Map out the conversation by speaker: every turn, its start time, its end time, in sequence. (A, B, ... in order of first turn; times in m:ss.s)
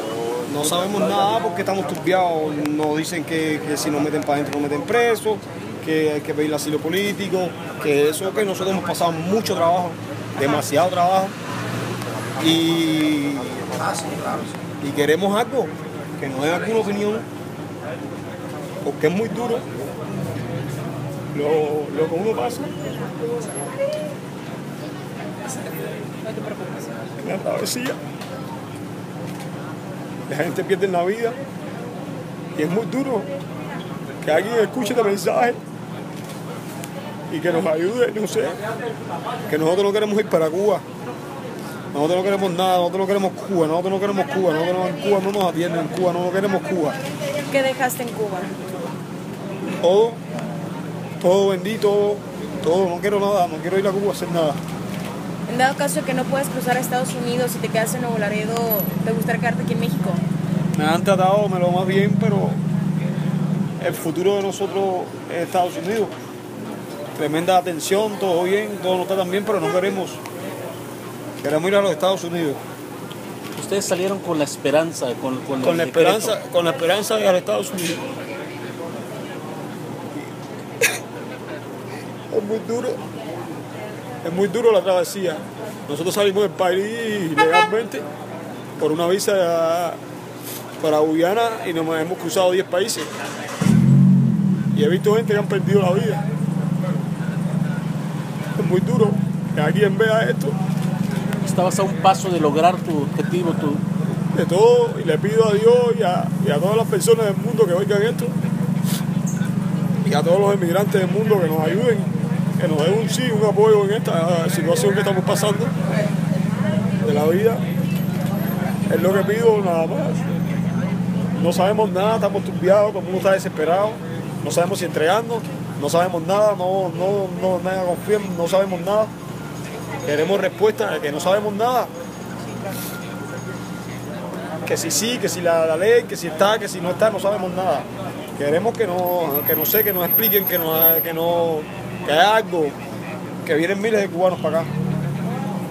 0:00.5-0:11.3 A
0:12.4-0:13.7 A
0:14.8-0:17.2 A
0:18.8-0:19.6 A
0:21.3-0:22.7 A
0:26.2-0:27.0 B
0:27.2-0:28.0 A
0:30.3-0:31.4 A
0:32.6-0:33.3 A
0:34.2-0:35.6 A
0:37.3-0:38.6 A
0:39.5-0:40.8 A
0:41.9-0:47.0 A
0:47.5-0:48.5 B
0:49.8-0:50.2 A
0:51.2-0:54.6 A
0:55.5-1:00.2 B
1:00.7-1:02.6 A
1:03.8-1:06.1 A
1:07.1-1:10.2 A
1:11.4-1:12.6 A
1:13.5-1:16.4 C
1:15.6-1:18.0 A
1:22.3-1:23.0 A
1:24.2-1:28.0 A
1:28.8-1:30.0 A
1:30.8-1:33.1 A
1:34.7-1:36.2 A
1:38.6-1:40.6 A
1:41.4-1:43.8 C
1:44.3-1:48.4 A
1:50.0-1:55.7 A
1:57.0-1:57.6 A
1:58.9-2:00.2 A
2:01.3-2:09.1 A
2:10.0-2:11.9 A
2:14.6-2:22.8 A
2:23.4-2:24.7 A